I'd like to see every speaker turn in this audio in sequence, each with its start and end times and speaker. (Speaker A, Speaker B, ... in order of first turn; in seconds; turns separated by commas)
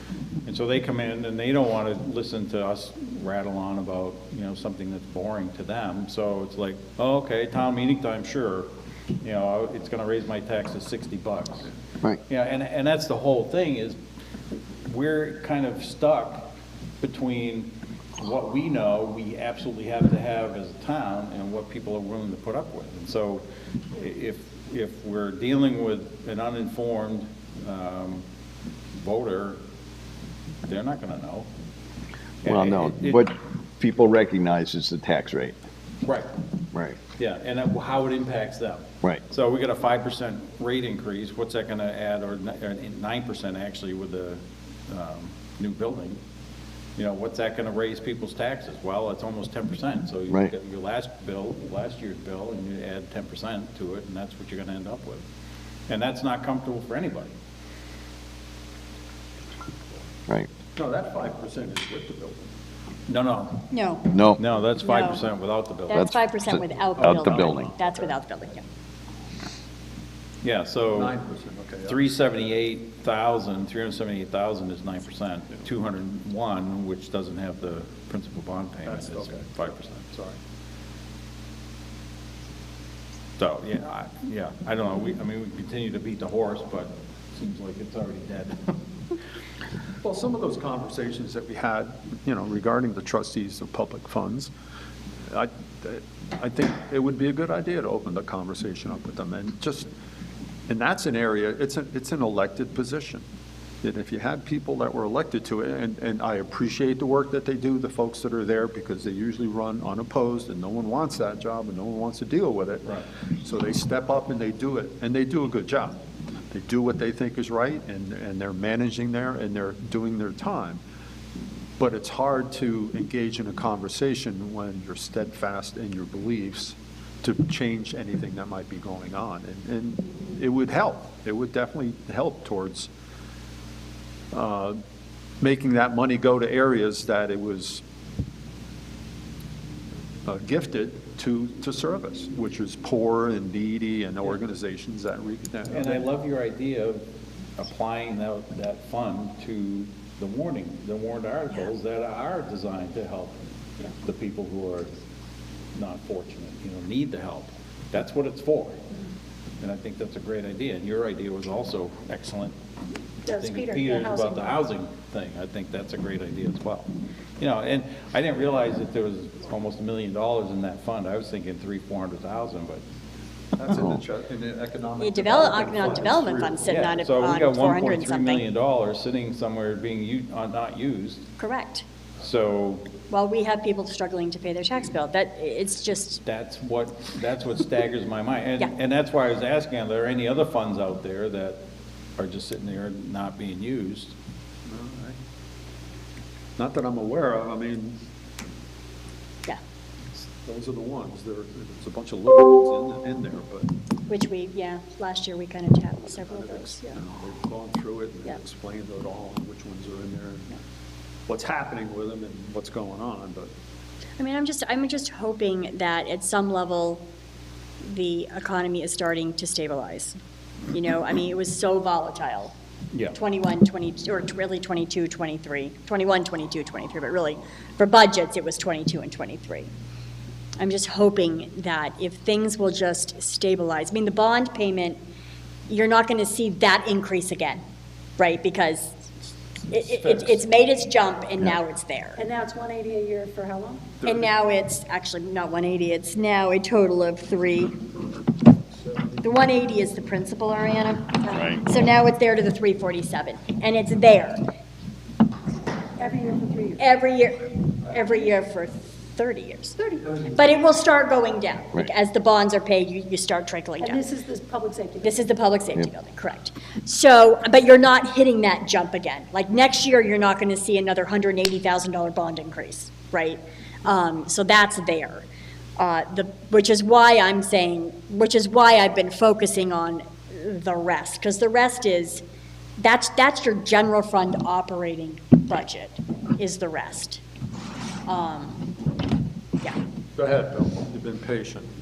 Speaker A: 0.5-8.7, Speaker A: 9.2-11.7, Speaker A: 12.3-14.0, Speaker A: 14.9-16.5, Speaker A: 17.0-28.2, Speaker A: 28.9-29.6, Speaker A: 30.6-31.5, Speaker A: 32.4-33.3, Speaker B: 32.5-35.6, Speaker A: 36.0-36.3, Speaker B: 36.7-37.0, Speaker A: 37.2-46.2, Speaker A: 47.0-55.2, Speaker A: 55.9-57.3, Speaker C: 60.7-62.5, Speaker A: 63.1-63.7, Speaker D: 63.7-64.1, Speaker B: 64.1-64.4, Speaker A: 64.3-66.1, Speaker D: 64.8-65.2, Speaker D: 65.9-68.6, Speaker B: 65.9-67.8, Speaker C: 67.1-68.1, Speaker A: 70.4-71.2, Speaker C: 70.9-72.0, Speaker A: 71.9-79.8, Speaker C: 78.8-80.4, Speaker A: 83.4-88.6, Speaker C: 90.0-94.5, Speaker C: 95.3-99.9, Speaker C: 100.7-103.2, Speaker C: 103.8-116.0, Speaker C: 116.5-120.8, Speaker C: 121.8-132.9, Speaker C: 134.3-134.8, Speaker C: 135.4-137.8, Speaker C: 140.2-146.1, Speaker A: 145.7-147.0, Speaker A: 147.6-154.9, Speaker A: 155.8-158.8, Speaker A: 159.6-162.5, Speaker A: 163.3-172.8, Speaker E: 163.3-164.6, Speaker C: 173.6-176.9, Speaker D: 175.0-178.4, Speaker A: 176.7-181.3, Speaker D: 181.4-181.8, Speaker A: 182.2-182.9, Speaker D: 183.1-186.2, Speaker A: 186.2-191.6, Speaker A: 192.2-194.2, Speaker C: 194.7-195.2, Speaker C: 196.6-198.0, Speaker C: 200.2-203.7, Speaker D: 204.1-207.0, Speaker C: 206.2-210.6, Speaker C: 211.3-213.5, Speaker D: 214.2-217.0, Speaker D: 217.8-220.2, Speaker D: 220.7-222.5, Speaker A: 222.9-223.2, Speaker D: 223.1-229.7, Speaker D: 230.6-235.0, Speaker D: 235.7-237.6, Speaker D: 238.2-239.0, Speaker C: 239.7-240.4, Speaker D: 239.7-242.2, Speaker E: 242.3-243.8, Speaker C: 244.0-244.3, Speaker D: 244.0-247.8, Speaker D: 249.2-254.4, Speaker B: 251.3-251.6, Speaker E: 256.0-256.7, Speaker D: 256.8-264.1, Speaker E: 264.0-265.0, Speaker D: 265.0-275.3, Speaker D: 275.8-282.2, Speaker D: 282.8-287.2, Speaker D: 288.1-288.7, Speaker C: 290.2-291.7